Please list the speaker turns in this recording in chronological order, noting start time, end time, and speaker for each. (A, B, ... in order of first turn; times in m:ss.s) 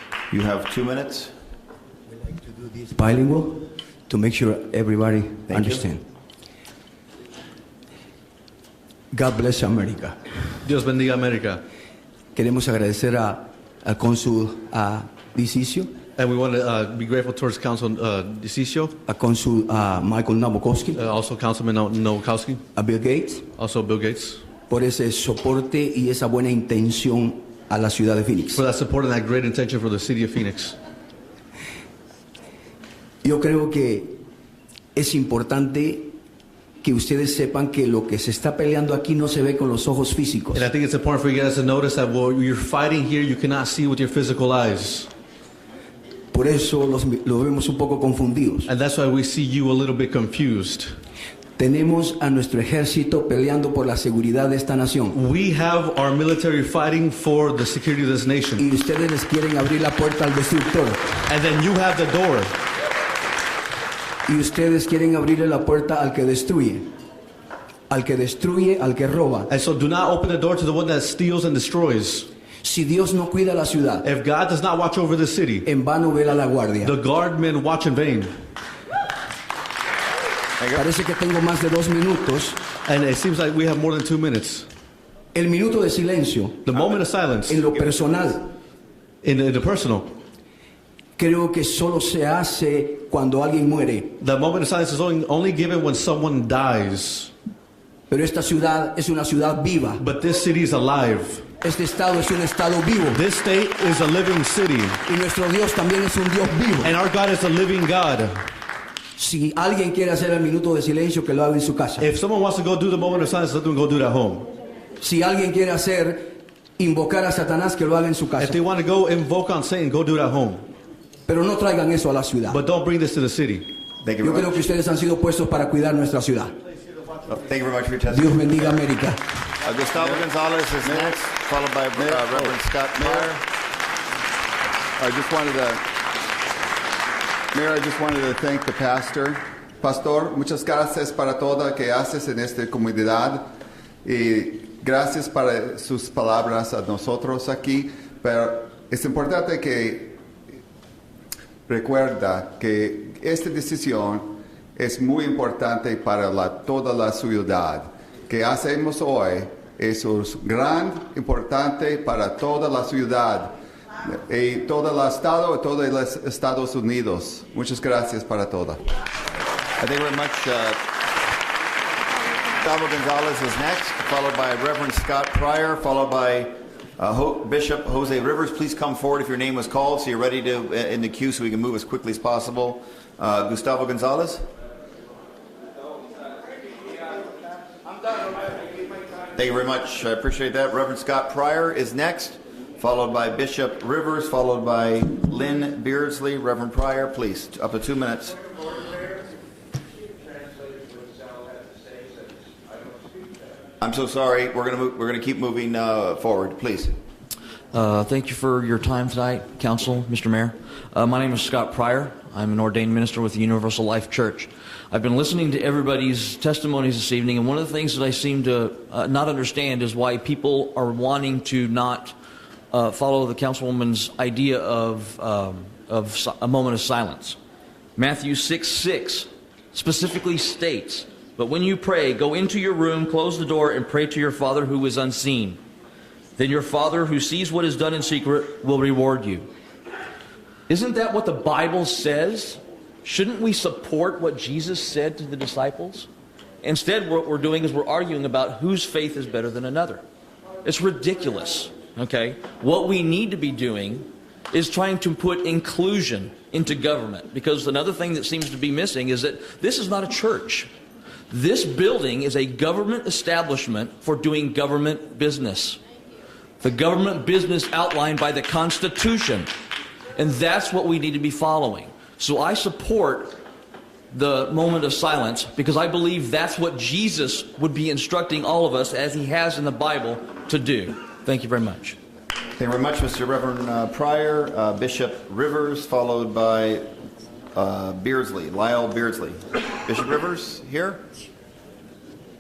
0:00.3-0:01.3 A
0:02.3-0:06.0 B
0:05.5-0:05.8 A
0:09.1-0:10.2 B
0:10.6-0:11.6 C
0:12.4-0:15.9 B
0:16.2-0:19.0 C
0:19.1-0:21.0 B
0:21.0-0:22.6 C
0:22.8-0:23.5 B
0:23.6-0:24.4 C
0:24.7-0:28.6 B
0:28.5-0:30.8 C
0:33.2-0:34.2 B
0:35.0-0:36.1 B
0:36.8-0:40.7 B
0:40.5-0:45.1 C
0:46.3-0:48.7 B
0:48.7-0:51.0 C
0:51.6-0:55.2 B
0:55.1-0:58.6 C
0:58.6-1:01.2 B
1:01.3-1:02.5 C
1:04.3-1:06.8 B
1:07.9-1:09.5 B
1:09.5-1:12.3 C
1:12.6-1:14.0 B
1:14.0-1:15.7 C
1:15.6-1:17.0 B
1:16.8-1:18.3 C
1:20.7-1:22.6 B
1:22.9-1:24.7 C
1:25.3-1:26.8 B
1:26.7-1:27.6 C
1:27.5-1:28.5 B
1:29.2-1:30.2 C
1:31.2-1:34.2 B
1:34.2-1:37.3 C
1:38.1-1:40.0 B
1:40.0-1:41.5 C
1:41.6-1:43.2 B
1:43.1-1:45.0 C
1:45.1-1:47.0 B
1:46.8-1:48.4 C
1:49.2-1:52.1 B
1:52.0-1:54.5 C
1:55.0-1:58.6 B
1:58.4-2:00.6 C
2:01.3-2:02.6 B
2:02.5-2:03.7 C
2:04.0-2:04.5 A
2:04.2-2:06.5 B
2:07.3-2:08.8 A
2:08.1-2:09.2 B
2:09.6-2:13.4 A
2:10.0-2:10.2 D
2:10.8-2:11.2 D
2:12.0-2:13.3 D
2:15.0-2:15.8 D
2:17.5-2:23.4 D
2:24.0-2:30.2 D
2:31.7-2:43.5 D
2:44.1-2:48.8 D
2:49.8-2:50.8 A
2:52.6-3:04.4 A
3:09.4-3:18.4 A
3:23.8-3:27.0 A
3:27.7-3:42.2 E
3:42.7-3:47.4 E
3:48.0-3:55.6 E
3:56.4-3:59.5 E
4:00.7-4:06.1 E
4:06.6-4:10.0 E
4:10.6-4:20.7 E
4:21.3-4:25.8 E
4:26.6-4:29.5 E
4:30.2-4:33.4 E
4:34.1-4:42.0 E
4:42.6-4:46.9 A
4:47.5-4:51.0 A